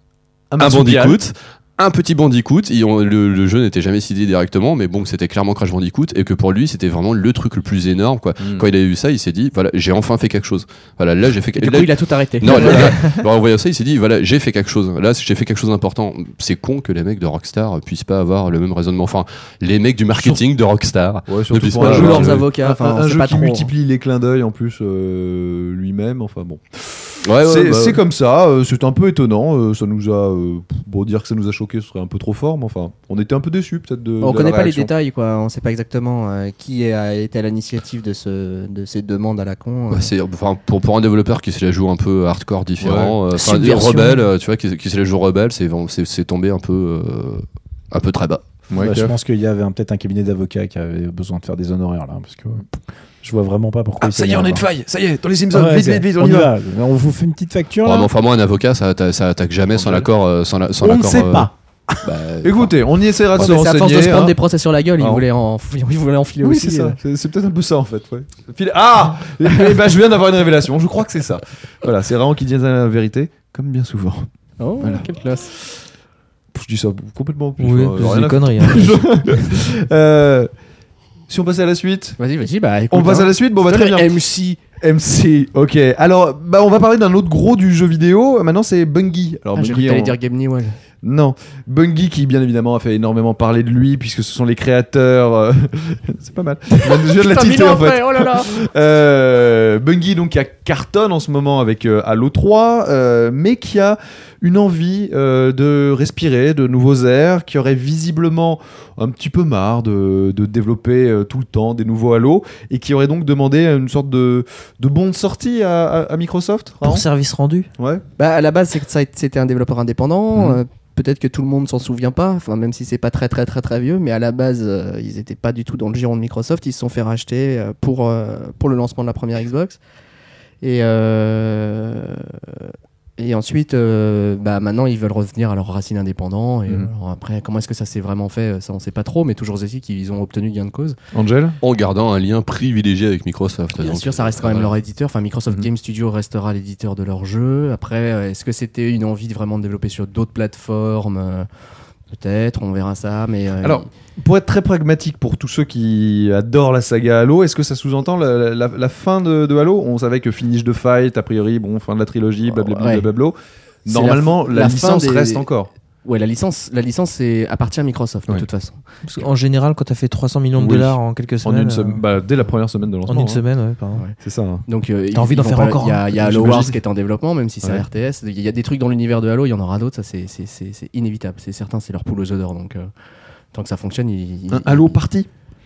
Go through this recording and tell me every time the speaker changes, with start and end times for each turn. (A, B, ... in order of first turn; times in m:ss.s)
0:00.5-0:01.2 A
0:00.6-0:22.4 B
0:08.4-0:08.6 A
0:11.5-0:13.2 C
0:12.5-0:12.9 A
0:20.2-0:20.4 A
0:21.3-0:34.9 A
0:21.8-0:23.7 C
0:27.2-0:28.0 B
0:34.2-0:40.1 C
0:39.9-0:48.4 B
0:42.8-0:43.1 A
0:43.5-0:44.2 D
0:48.7-0:49.1 A
0:48.8-0:54.7 E
0:54.0-0:56.5 A
0:55.5-0:58.1 E
0:57.8-1:01.5 B
0:59.7-1:00.1 A
1:00.8-1:01.5 E
1:02.0-1:02.7 B
1:02.4-1:04.4 A
1:03.3-1:07.0 C
1:05.0-1:05.2 A
1:06.4-1:14.3 A
1:14.6-1:15.5 C
1:14.8-1:15.1 A
1:16.5-1:20.5 A
1:17.6-1:19.0 D
1:21.3-1:22.2 A
1:22.2-1:24.6 C
1:22.9-1:24.2 A
1:24.7-1:30.2 A
1:29.5-1:30.8 C
1:31.0-1:57.0 A
1:36.8-1:38.5 C
1:56.8-1:57.7 D
1:57.8-1:58.0 A
1:58.2-2:09.8 C
2:10.6-2:21.0 C
2:21.1-2:21.6 A
2:21.6-2:24.7 B
2:23.8-2:31.5 C
2:32.1-2:33.9 C
2:33.6-2:45.7 A
2:42.6-2:43.0 C
2:43.9-2:45.4 C
2:46.0-2:48.8 C
2:49.0-2:52.0 D
2:50.6-2:53.4 A
2:53.1-2:54.0 D
2:54.2-2:54.6 A
2:54.7-3:02.9 C
2:55.1-2:56.7 D
2:56.4-2:56.7 A
3:03.5-3:05.0 C
3:04.5-3:05.3 A